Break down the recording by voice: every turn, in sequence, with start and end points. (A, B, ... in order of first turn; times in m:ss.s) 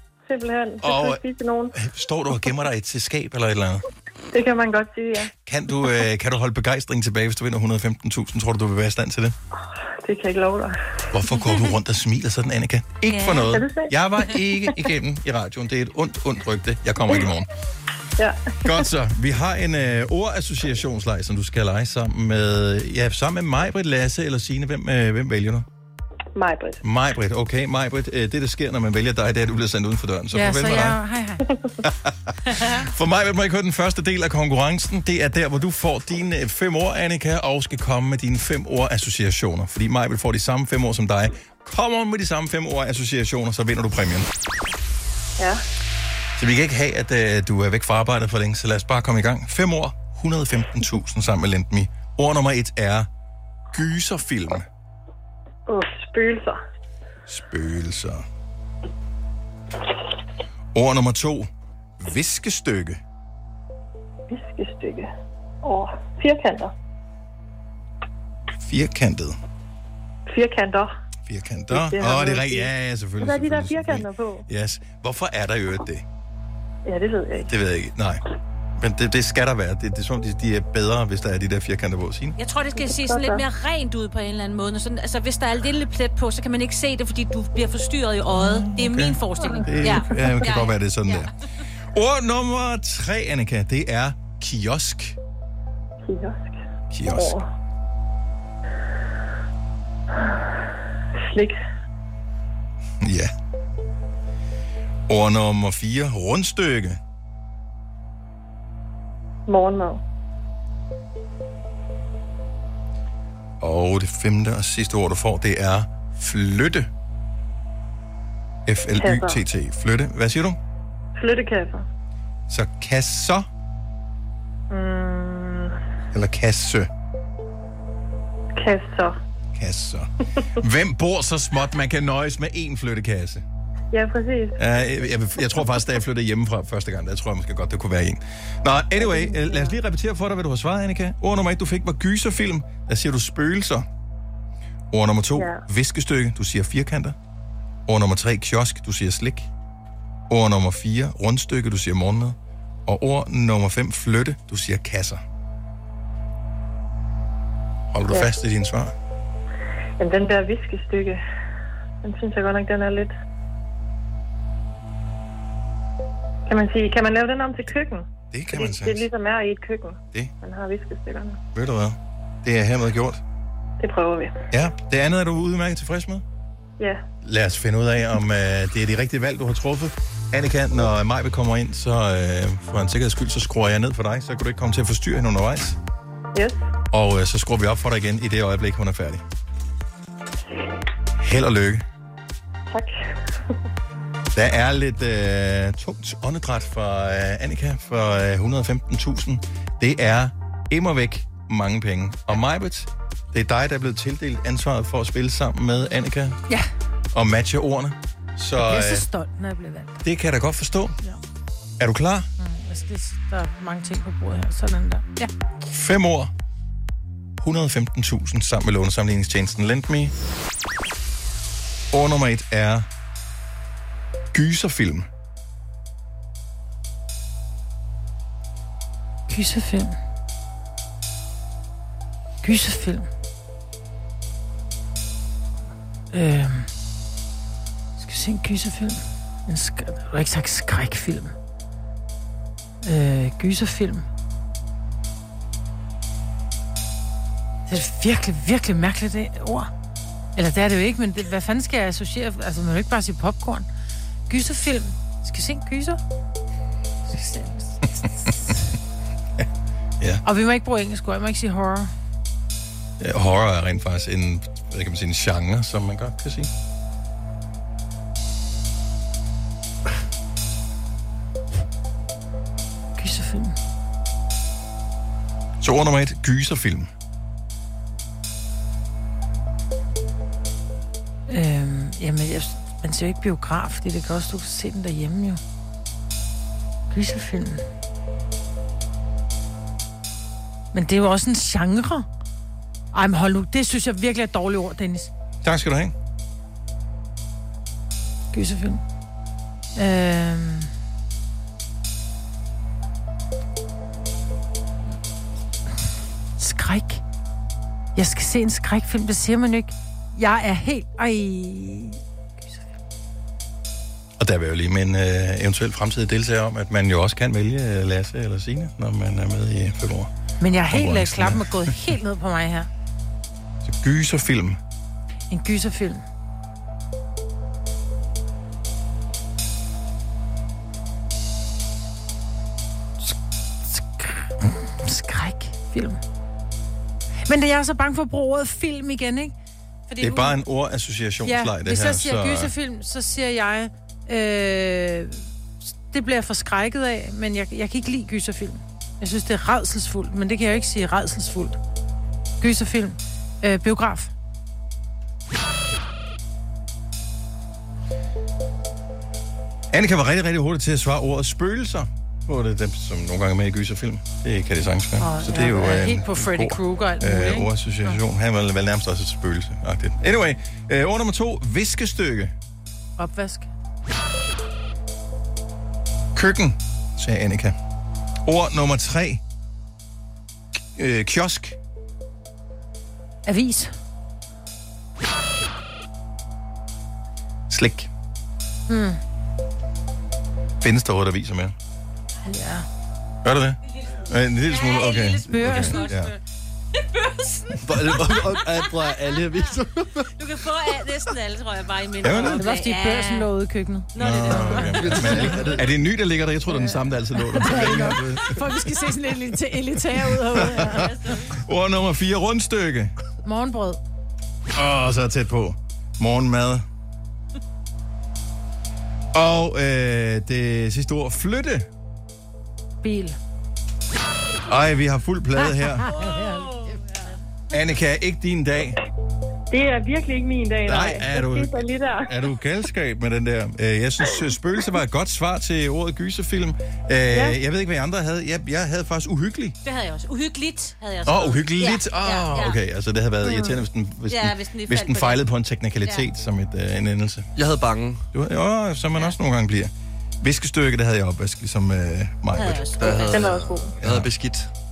0:00.3-0:01.8 A
0:00.8-0:01.2 B
0:01.8-0:03.8 B
0:04.3-0:05.3 A
0:05.3-0:09.4 B
0:09.6-0:11.0 A
0:11.1-0:17.5 B
0:13.0-0:13.6 C
0:13.4-0:14.0 A
0:18.2-0:18.9 A
0:18.6-0:25.7 B
0:26.4-0:26.8 A
0:26.8-0:31.0 B
0:30.3-0:31.4 D
0:31.8-0:44.3 B
0:45.4-0:45.6 A
0:46.4-0:53.1 B
0:53.7-0:54.7 B
0:55.7-0:56.6 A
0:57.3-0:58.2 B
1:00.7-1:03.0 B
1:04.3-1:05.1 A
1:05.6-1:06.7 A
1:08.6-1:09.4 B
1:10.3-1:11.0 A
1:11.3-1:16.0 B
1:11.7-1:12.7 A
1:13.2-1:14.5 A
1:16.9-1:17.5 A
1:17.4-1:18.2 B
1:18.8-1:22.4 B
1:22.4-1:31.3 C
1:22.7-1:23.4 A
1:28.3-1:31.3 B
1:31.9-1:35.2 B
1:36.0-1:37.5 A
1:36.9-1:37.4 B
1:41.2-1:41.6 A
1:43.0-1:43.3 B
1:45.1-1:47.0 B
1:49.5-1:50.0 A
1:53.6-1:56.9 B
1:58.7-2:00.6 B
1:59.0-1:59.4 A
2:01.2-2:01.8 A
2:02.5-2:03.5 B
2:04.7-2:05.8 A
2:06.1-2:06.9 B
2:08.5-2:09.2 A
2:09.6-2:13.4 B
2:13.9-2:14.6 A
2:14.6-2:23.9 B
2:19.0-2:19.8 A
2:24.9-2:27.2 B
2:25.4-2:25.6 A
2:27.9-2:29.5 B
2:30.3-2:35.2 B
2:37.9-2:38.9 B
2:40.0-2:41.2 A
2:42.0-2:43.1 A
2:46.5-2:51.4 A
2:48.3-2:49.1 B
2:51.6-2:53.2 B
2:53.8-2:54.4 A
2:54.5-2:56.2 B
2:56.8-2:57.0 A
2:57.2-3:05.8 B
3:06.3-3:06.7 A
3:06.9-3:09.2 B
3:11.2-3:11.8 B
3:14.3-3:26.4 B
3:27.1-3:29.1 B
3:28.6-3:30.0 D
3:30.0-3:31.0 B
3:31.8-3:32.3 B
3:32.4-3:35.3 D
3:35.6-3:36.3 B
3:37.4-3:40.1 B
3:41.9-3:42.9 B
3:44.3-3:45.1 B
3:49.3-3:50.0 D
3:52.4-3:53.1 D
3:56.1-3:56.7 D
3:58.0-4:01.3 D
4:02.8-4:04.1 D
4:07.7-4:09.7 D
4:10.4-4:13.7 D
4:14.3-4:16.0 D
4:17.1-4:18.6 D
4:20.2-4:21.9 D
4:23.0-4:26.5 B
4:33.0-4:33.6 D
4:35.6-4:36.9 B
4:41.3-4:45.4 D
4:46.9-4:47.6 D
4:50.7-4:52.1 D
4:52.9-4:55.1 D
4:55.4-4:55.9 B
4:58.3-4:58.8 D
4:59.8-5:00.7 D
5:06.4-5:07.0 D
5:08.0-5:12.0 D
5:14.2-5:20.1 B
5:20.4-5:22.7 D
5:20.7-5:21.7 B
5:23.6-5:24.6 B
5:25.3-5:26.0 D
5:33.0-5:36.0 D
5:37.3-5:39.4 D
5:39.9-5:40.3 D
5:40.0-5:42.5 B
5:41.2-5:45.3 D
5:45.8-5:51.6 D
5:52.4-5:54.1 D
5:59.7-6:12.3 B
6:05.0-6:08.0 D
6:13.0-6:13.5 D
6:16.1-6:17.6 B
6:18.2-6:19.2 B
6:20.8-6:21.6 B
6:23.3-6:23.7 D
6:27.5-6:27.9 B
6:28.7-6:29.0 D
6:30.6-6:31.6 B
6:32.3-6:32.7 D
6:33.2-6:36.1 B
6:33.7-6:36.2 C
6:35.3-6:35.8 D
6:36.8-6:39.0 C
6:37.6-6:38.8 B
6:37.7-6:40.0 E
6:40.2-6:43.3 C
6:42.0-6:42.4 B
6:42.4-6:45.2 D
6:44.0-6:45.5 C
6:44.0-6:48.4 B
6:44.8-6:45.6 E
6:46.5-6:50.9 D
6:50.3-6:51.3 C
6:50.3-6:52.9 B
6:53.2-6:53.8 D
6:54.5-6:56.6 B
6:59.1-7:01.7 B
7:02.8-7:03.2 D
7:04.4-7:05.9 B
7:05.8-7:06.7 D
7:05.9-7:07.1 C
7:07.5-7:08.8 B
7:09.5-7:12.2 A
7:10.6-7:19.6 B
7:17.1-7:17.4 A
7:19.6-7:22.6 C
7:21.0-7:27.3 B
7:24.1-7:25.2 C
7:27.4-7:28.1 E
7:28.1-7:32.7 B
7:32.3-7:33.5 C
7:32.8-7:34.5 E
7:33.1-7:33.8 A
7:33.8-7:34.1 B